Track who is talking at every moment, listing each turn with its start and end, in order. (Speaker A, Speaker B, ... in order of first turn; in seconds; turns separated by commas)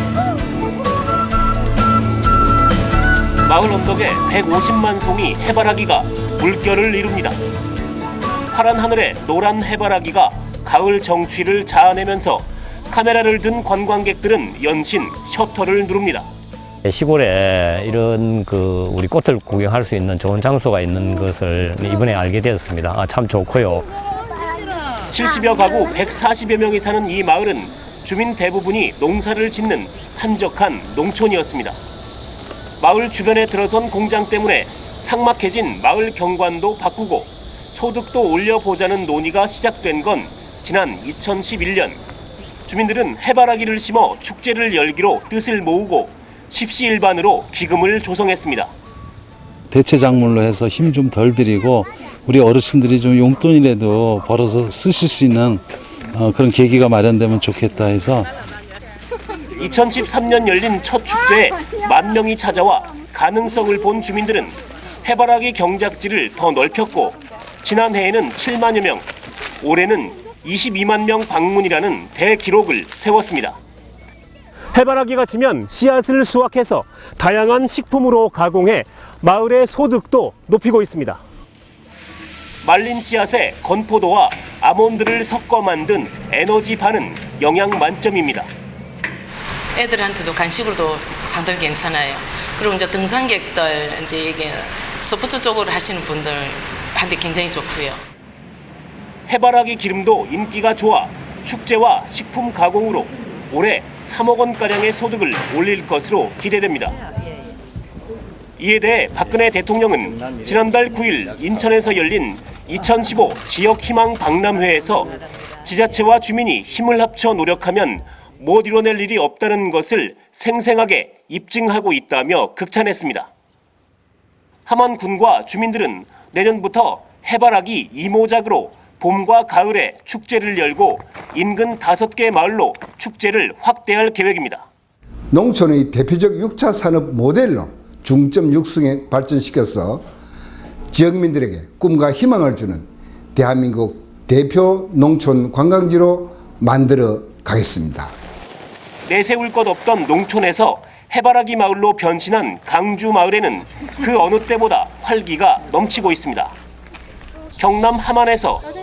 Speaker A: 3.5-7.4, Speaker A: 8.5-16.3, Speaker B: 16.8-23.9, Speaker A: 25.1-31.8, Speaker A: 32.8-42.0, Speaker A: 42.7-48.7, Speaker C: 49.7-55.6, Speaker C: 56.2-58.2, Speaker A: 59.6-69.1, Speaker A: 69.6-73.6, Speaker A: 74.7-81.2, Speaker A: 82.6-88.5, Speaker D: 89.8-98.0, Speaker A: 99.3-107.0, Speaker A: 108.6-115.1, Speaker A: 115.6-123.3, Speaker A: 124.7-134.7, Speaker E: 135.3-140.0, Speaker E: 140.9-148.1, Speaker A: 149.1-156.6, Speaker A: 157.6-158.7